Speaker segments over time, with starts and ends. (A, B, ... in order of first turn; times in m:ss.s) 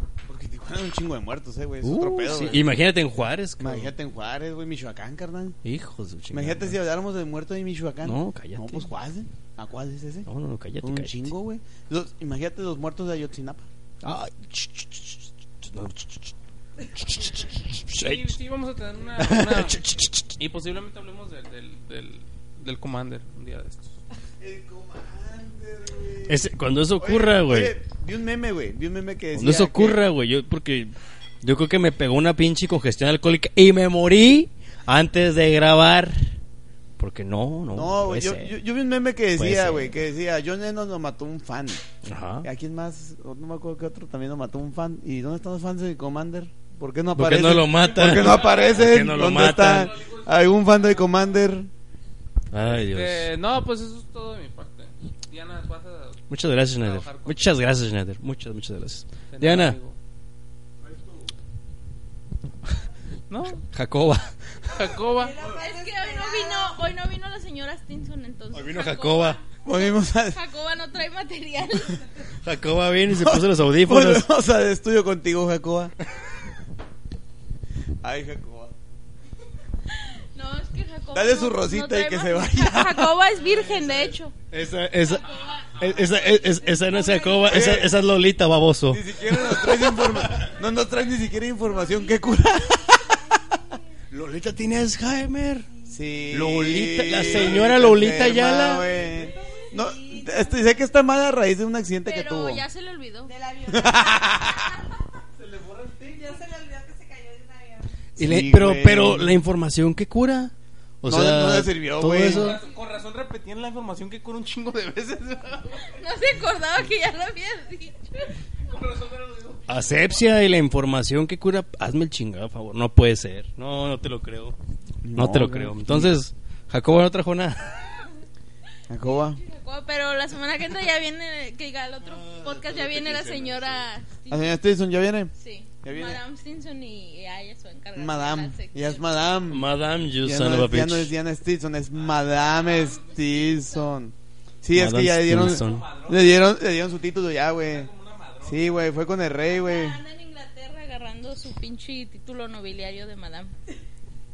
0:00.3-0:02.7 A
0:01.8-0:03.9 B
0:03.6-0:05.6 A
0:05.6-0:06.8 B
0:06.3-0:10.3 A
0:08.0-0:08.9 B
0:10.3-0:11.3 B
0:10.8-0:13.7 A
0:14.0-0:16.3 B
0:16.9-0:18.3 B
0:17.9-0:24.0 C
0:19.2-0:20.3 B
0:24.4-0:30.0 A
0:26.3-0:27.7 B
0:29.3-0:36.2 B
0:37.0-0:38.5 B
0:37.7-0:41.8 A
0:39.3-0:39.9 B
0:42.0-0:42.5 B
0:42.4-0:51.7 A
0:47.1-0:49.9 B
0:49.7-0:50.2 C
0:52.5-0:53.3 B
0:52.7-0:57.4 C
0:56.3-0:59.8 B
0:59.3-1:00.0 C
1:03.3-1:03.6 C
1:03.7-1:04.3 B
1:04.7-1:05.4 C
1:05.1-1:06.8 D
1:05.4-1:12.0 E
1:08.5-1:09.4 B
1:09.6-1:10.4 A
1:12.4-1:14.3 B
1:13.0-1:15.9 A
1:18.0-1:18.7 A
1:20.0-1:24.3 E
1:21.1-1:23.2 A
1:24.5-1:30.2 B
1:25.1-1:27.7 E
1:27.4-1:27.9 A
1:28.9-1:33.6 A
1:31.6-1:33.8 D
1:34.1-1:35.7 B
1:35.9-1:42.6 A
1:36.3-1:38.8 B
1:38.7-1:40.8 D
1:42.0-1:43.3 E
1:43.2-1:44.7 D
1:43.7-1:44.7 A
1:45.4-1:48.0 D
1:48.2-1:49.4 A
1:48.2-1:52.6 B
1:51.0-1:52.6 A
1:52.2-1:55.9 C
1:55.8-1:58.3 E
1:58.6-1:59.9 C
1:59.7-2:04.6 B
2:05.0-2:06.2 A
2:05.2-2:07.8 B
2:08.9-2:09.4 A
2:09.0-2:14.6 E
2:12.4-2:13.7 A
2:14.3-2:15.3 A
2:15.3-2:19.2 E
2:15.8-2:16.2 A
2:17.9-2:27.9 A
2:19.5-2:21.1 B
2:22.7-2:23.8 E
2:24.7-2:25.9 B
2:25.4-2:26.5 C
2:27.6-2:28.8 C
2:28.4-2:30.0 A
2:29.4-2:33.5 E